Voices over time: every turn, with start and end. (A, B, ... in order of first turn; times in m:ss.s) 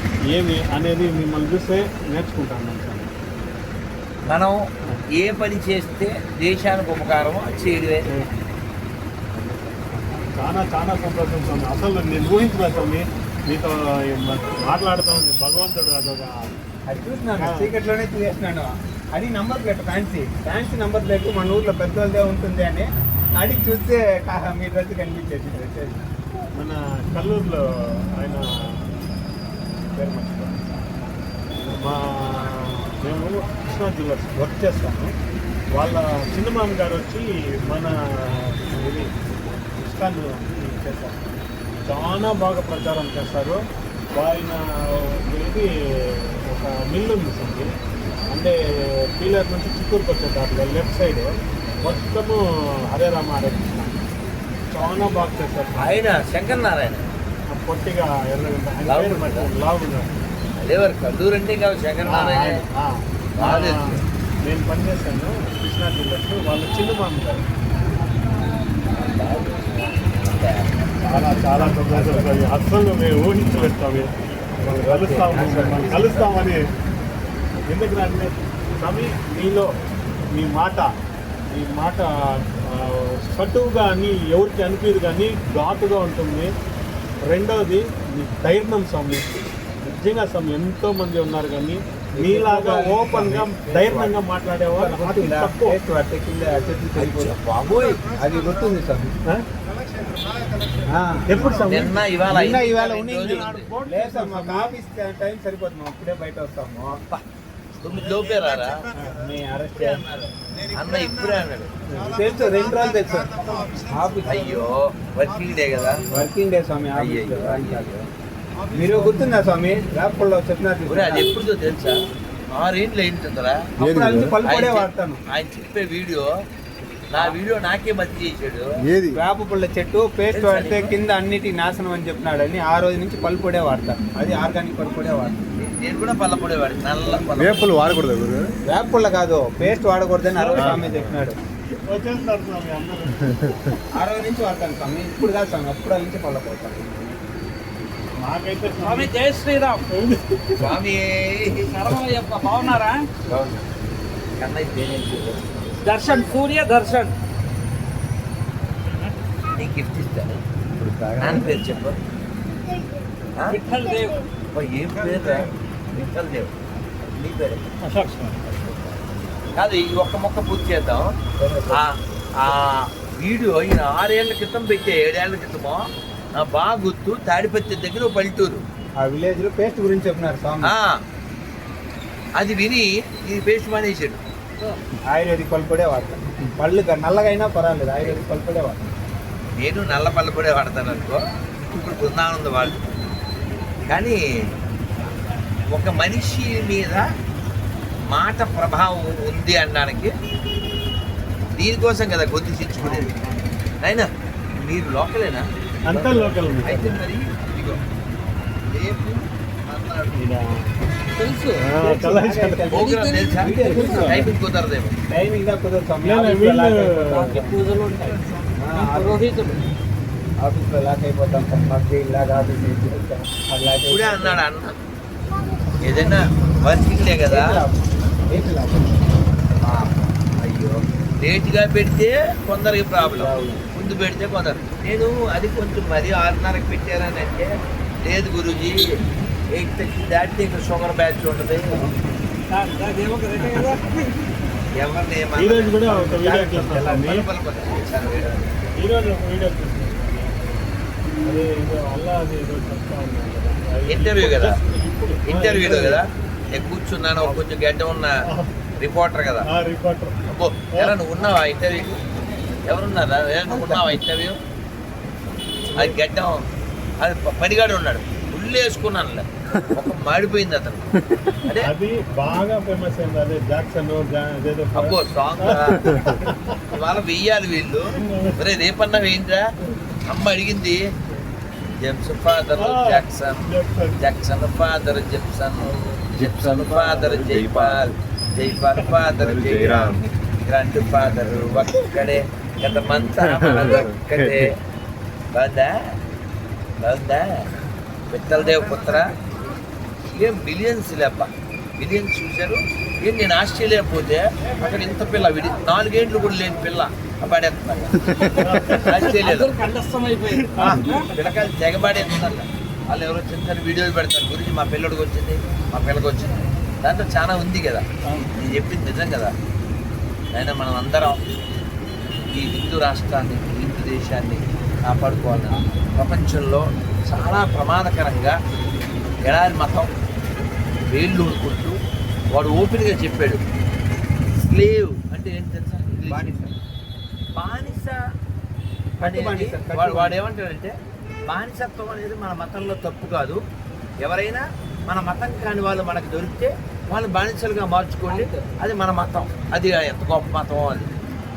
0:00.3-0:03.1 A
0:04.3-0:04.6 B
0:05.1-0:08.0 B
0:09.4-0:16.6 A
0:16.9-0:26.0 C
0:17.4-0:17.7 A
0:26.5-0:27.6 A
0:28.2-0:28.8 A
0:30.0-0:30.6 A
0:31.6-0:35.1 A
0:35.7-0:39.1 A
0:39.8-0:41.3 A
0:41.8-0:43.6 A
0:44.1-0:47.7 A
0:48.3-0:48.6 A
0:49.1-0:53.9 A
0:54.7-0:56.0 A
0:55.8-0:57.0 B
0:57.5-1:00.1 A
0:58.9-0:59.5 B
1:00.6-1:02.6 B
1:02.0-1:07.4 A
1:03.4-1:04.0 B
1:08.9-1:10.6 B
1:11.0-1:12.4 C
1:11.0-1:16.6 A
1:14.7-1:16.1 C
1:15.8-1:16.3 B
1:17.7-1:19.7 A
1:20.3-1:20.9 A
1:21.5-1:26.5 A
1:27.3-1:35.8 A
1:32.2-1:34.2 C
1:34.7-1:37.4 C
1:37.0-1:38.0 B
1:38.0-1:39.2 C
1:40.9-1:41.5 C
1:41.3-1:42.6 A
1:41.6-1:43.7 B
1:42.2-1:47.0 C
1:43.2-1:44.8 A
1:47.8-1:48.8 B
1:49.0-1:50.0 C
1:49.8-1:51.7 B
1:51.9-1:52.1 A
1:52.1-1:54.4 C
1:54.2-1:56.1 B
1:56.1-1:57.9 C
1:57.0-1:58.1 B
1:58.7-2:01.3 C
2:00.8-2:02.0 B
2:02.6-2:03.6 B
2:03.8-2:05.2 C
2:03.8-2:04.4 D
2:04.4-2:06.3 B
2:07.1-2:08.7 B
2:08.8-2:09.2 D
2:09.1-2:15.4 C
2:10.3-2:11.0 B
2:15.6-2:17.8 B
2:17.3-2:18.4 D
2:18.7-2:21.4 C
2:20.5-2:20.8 A
2:20.5-2:21.1 D
2:21.8-2:23.5 A
2:24.0-2:27.2 C
2:28.2-2:29.1 A
2:28.8-2:29.9 E
2:29.9-2:30.7 A
2:30.6-2:31.8 B
2:31.7-2:33.1 E
2:33.3-2:33.6 B
2:34.4-2:35.7 B
2:35.8-2:37.1 E
2:39.6-2:40.4 B
2:40.8-2:41.5 D
2:41.2-2:42.0 B
2:43.5-2:44.3 E
2:44.5-2:46.5 B
2:47.1-2:47.6 B
2:47.8-2:48.3 A
2:48.4-2:51.1 B
2:51.4-2:51.9 C
2:51.7-2:58.6 B
2:59.0-3:00.7 C
3:00.6-3:01.0 B
3:02.4-3:04.2 B
3:05.1-3:08.9 C
3:09.6-3:11.2 B
3:11.7-3:12.8 B
3:13.9-3:14.2 B
3:15.7-3:17.0 B
3:18.1-3:20.1 B
3:21.6-3:23.1 B
3:22.8-3:23.4 A
3:23.8-3:24.1 B
3:24.6-3:27.8 B
3:25.8-3:27.0 A
3:28.7-3:30.2 B
3:30.1-3:30.7 A
3:31.2-3:31.8 E
3:31.6-3:32.7 A
3:31.8-3:34.3 C
3:32.7-3:34.9 B
3:32.7-3:34.1 E
3:33.6-3:34.2 A
3:35.1-3:37.6 C
3:36.0-3:37.4 A
3:37.1-3:39.6 E
3:38.6-3:39.2 C
3:40.4-3:44.4 C
3:43.9-3:44.7 B
3:45.8-3:47.5 B
3:47.3-3:49.0 C
3:49.6-3:58.8 B
3:53.2-3:53.6 C
3:59.5-4:01.8 B
4:02.5-4:04.1 E
4:04.7-4:08.5 B
4:05.4-4:07.2 A
4:08.8-4:10.5 A
4:11.2-4:16.0 A
4:13.9-4:14.6 B
4:15.2-4:18.1 B
4:18.2-4:18.5 A
4:18.8-4:19.5 B
4:19.5-4:20.2 A
4:20.3-4:22.0 B
4:22.6-4:24.4 B
4:25.7-4:26.4 B
4:27.0-4:31.7 B
4:31.6-4:36.6 A
4:34.7-4:36.0 B
4:36.7-4:39.4 B
4:38.0-4:38.4 A
4:40.1-4:40.8 B
4:41.8-4:43.4 B
4:42.6-4:44.0 A
4:44.0-4:54.6 B
4:45.6-4:46.0 A
4:46.1-4:48.0 D
4:49.1-4:50.0 D
4:50.8-4:51.8 D
4:52.9-4:54.5 D
4:55.3-4:55.7 B
4:56.8-4:57.5 B
4:58.1-4:59.1 B
5:00.1-5:09.6 B
5:08.2-5:09.2 A
5:09.0-5:11.1 E
5:10.3-5:10.9 A
5:10.6-5:19.3 B
5:18.0-5:18.3 A
5:20.3-5:21.2 B
5:22.3-5:28.4 B
5:29.2-5:29.9 B
5:30.9-5:31.8 B
5:32.3-5:33.4 B
5:34.4-5:36.4 B
5:36.0-5:36.6 C
5:37.3-5:38.0 B
5:39.0-5:40.2 C
5:39.0-5:40.7 B
5:41.3-5:43.4 B
5:44.0-5:50.9 B
5:48.1-5:48.5 E